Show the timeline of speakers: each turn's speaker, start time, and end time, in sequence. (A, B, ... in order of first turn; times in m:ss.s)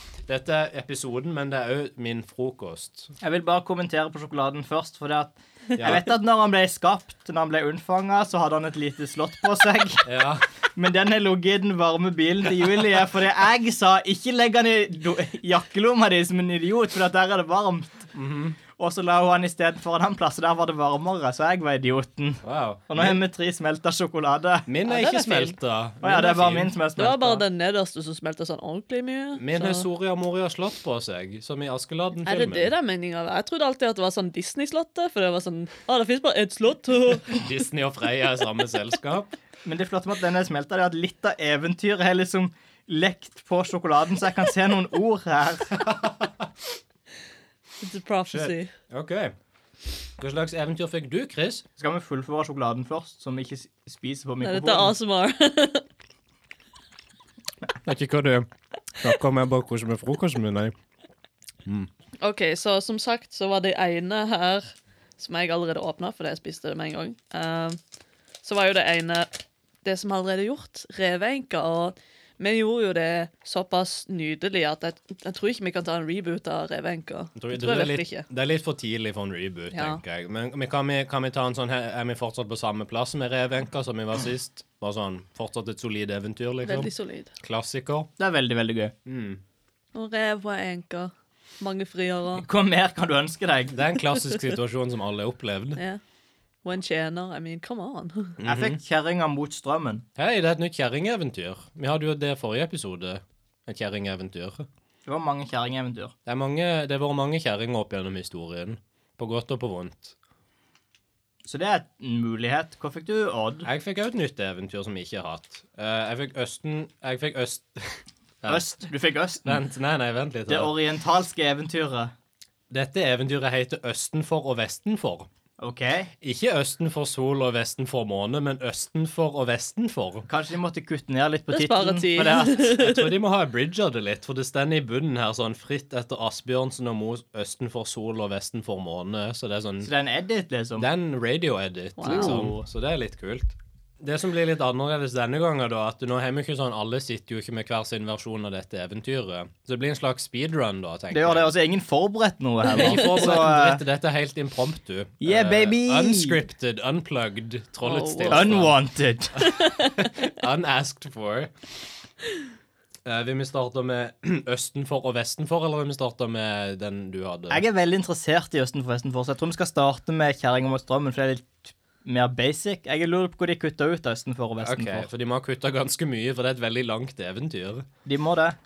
0:00.3-0:03.1 A
0:03.2-0:10.1 B
0:05.8-0:06.1 A
0:10.0-0:10.4 A
0:10.8-0:18.0 B
0:18.1-0:18.6 A
0:18.8-0:24.7 B
0:22.4-0:23.2 A
0:24.7-0:26.8 A
0:24.9-0:25.6 C
0:26.0-0:27.4 B
0:27.0-0:29.8 C
0:29.4-0:32.7 A
0:32.2-0:37.4 C
0:37.3-0:39.3 A
0:39.6-0:45.8 B
0:45.7-0:46.5 A
0:47.8-0:48.7 C
0:48.3-0:49.3 A
0:50.2-0:51.6 A
0:51.8-0:54.9 B
0:54.4-0:55.9 C
0:57.8-0:58.5 A
0:59.0-1:00.8 A
1:02.2-1:07.8 C
1:08.4-1:18.2 C
1:17.4-1:28.1 A
1:19.7-1:20.0 C
1:26.6-1:27.3 C
1:28.2-1:28.9 B
1:29.0-1:29.4 A
1:29.9-1:32.5 C
1:32.4-1:33.9 B
1:33.7-1:35.8 A
1:36.6-1:38.4 C
1:38.4-1:38.8 A
1:38.4-1:40.0 B
1:40.2-1:44.7 A
1:45.1-1:46.1 B
1:46.3-1:50.2 A
1:51.4-1:53.7 B
1:53.6-1:58.7 A
1:58.5-1:59.6 B
1:59.4-2:00.7 A
2:00.5-2:02.1 B
2:02.7-2:05.3 A
2:05.6-2:06.1 B
2:06.2-2:10.3 A
2:10.3-2:12.6 B
2:11.5-2:13.1 C
2:12.6-2:19.9 A
2:19.8-2:20.9 B
2:20.8-2:31.5 A
2:22.0-2:22.4 C
2:22.0-2:22.6 B
2:31.1-2:33.8 B
2:32.7-2:38.8 A
2:35.2-2:36.4 B
2:37.8-2:38.6 C
2:38.3-2:39.4 B
2:39.4-2:41.5 A
2:39.4-2:40.1 C
2:43.0-2:47.6 A
2:47.5-2:55.1 B
2:54.6-2:57.9 A
2:58.1-2:58.6 B